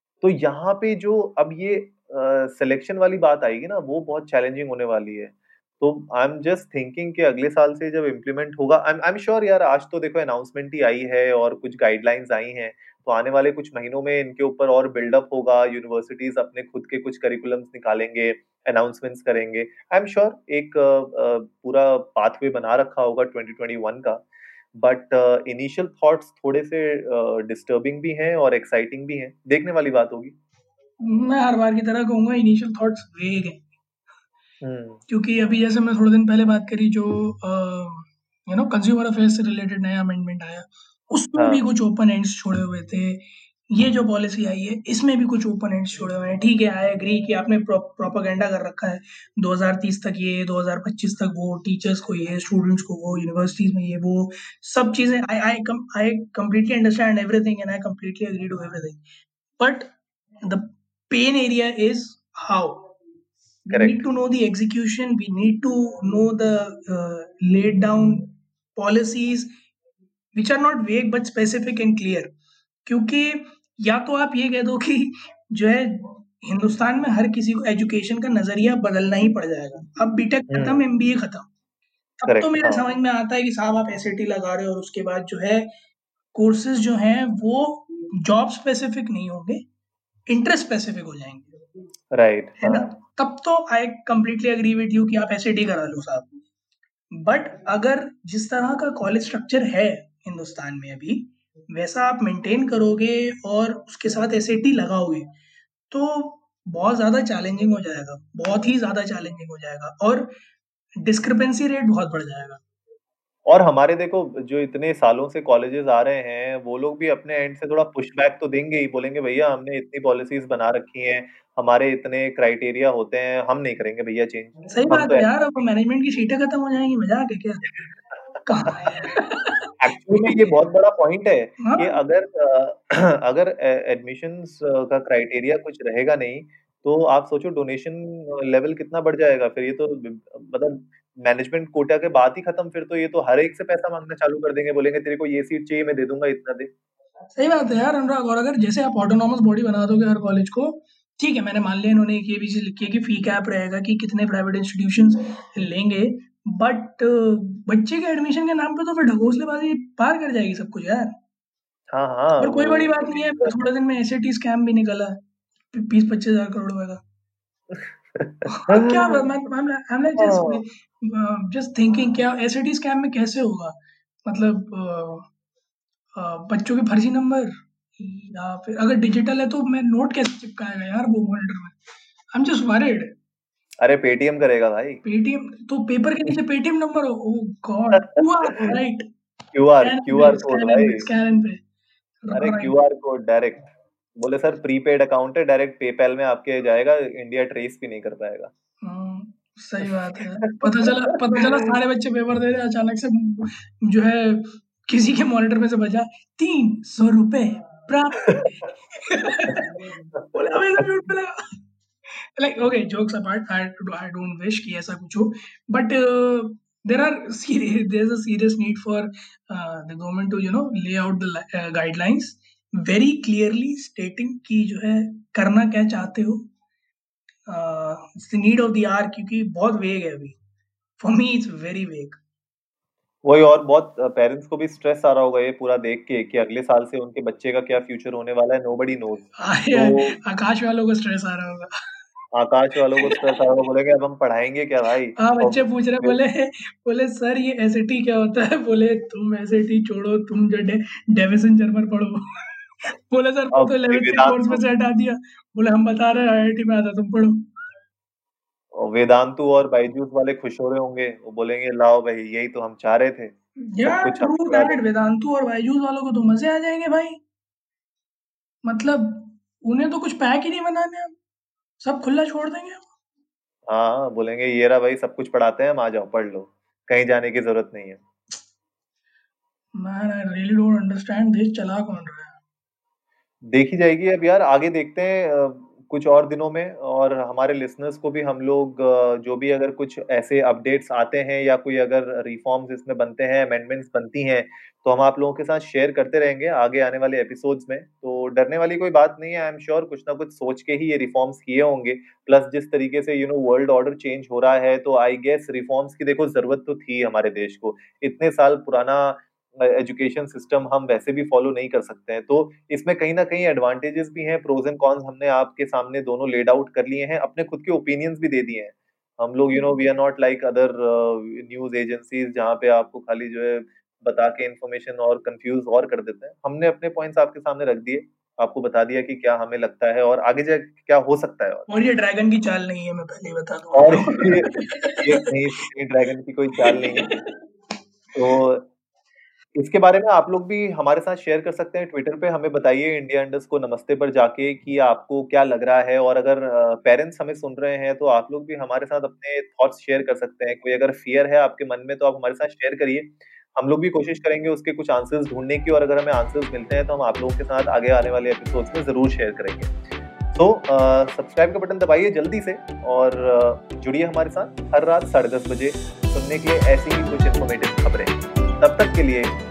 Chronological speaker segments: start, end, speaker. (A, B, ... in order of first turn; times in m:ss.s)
0:00.2-0:24.2 A
0:24.8-0:30.4 A
0:31.1-0:33.6 B
0:34.6-0:35.0 A
0:35.1-0:59.0 B
0:41.4-0:41.6 A
0:59.6-0:59.9 B
1:00.4-1:02.9 B
1:03.7-1:09.5 B
1:03.7-1:04.0 A
1:10.3-1:12.3 B
1:12.9-1:21.5 B
1:20.5-1:20.8 A
1:22.2-1:25.7 B
1:22.3-1:22.8 A
1:26.3-1:29.6 B
1:30.3-1:31.5 B
1:32.1-1:32.9 A
1:32.6-1:36.3 B
1:37.1-1:45.3 B
1:45.9-1:50.3 B
1:51.0-1:52.6 B
1:53.5-2:05.3 A
2:04.7-2:07.6 B
2:08.5-2:10.4 B
2:09.8-2:26.7 A
2:11.6-2:12.0 B
2:27.4-2:41.1 B
2:41.9-2:43.6 A
2:42.4-2:45.2 B
2:45.7-2:47.0 B
2:48.2-2:49.2 A
2:48.5-2:55.3 B
2:50.2-2:50.6 A
2:56.2-3:01.8 B
3:02.3-3:03.1 B
3:03.8-3:05.0 A
3:05.0-3:09.0 B
3:09.5-3:11.1 A
3:09.8-3:11.6 B
3:12.2-3:12.8 B
3:12.3-3:13.7 A
3:14.2-3:18.5 A
3:18.8-3:31.4 B
3:20.6-3:20.9 A
3:32.4-3:46.5 B
3:47.5-3:50.4 B
3:51.0-3:52.2 B
3:53.2-4:00.1 A
3:59.4-4:01.7 B
4:02.3-4:06.2 A
4:05.2-4:12.2 B
4:13.1-4:17.5 B
4:13.5-4:14.6 A
4:18.7-4:23.3 A
4:23.7-4:27.2 B
4:23.8-4:24.8 A
4:28.7-4:31.2 B
4:31.8-4:32.9 B
4:33.7-4:38.0 A
4:39.8-4:42.4 B
4:43.5-5:31.7 A
5:31.7-5:35.0 B
5:33.8-5:34.5 A
5:35.0-5:37.1 A
5:36.6-5:37.4 B
5:38.2-5:38.7 A
5:39.6-5:59.7 A
6:00.3-6:09.4 A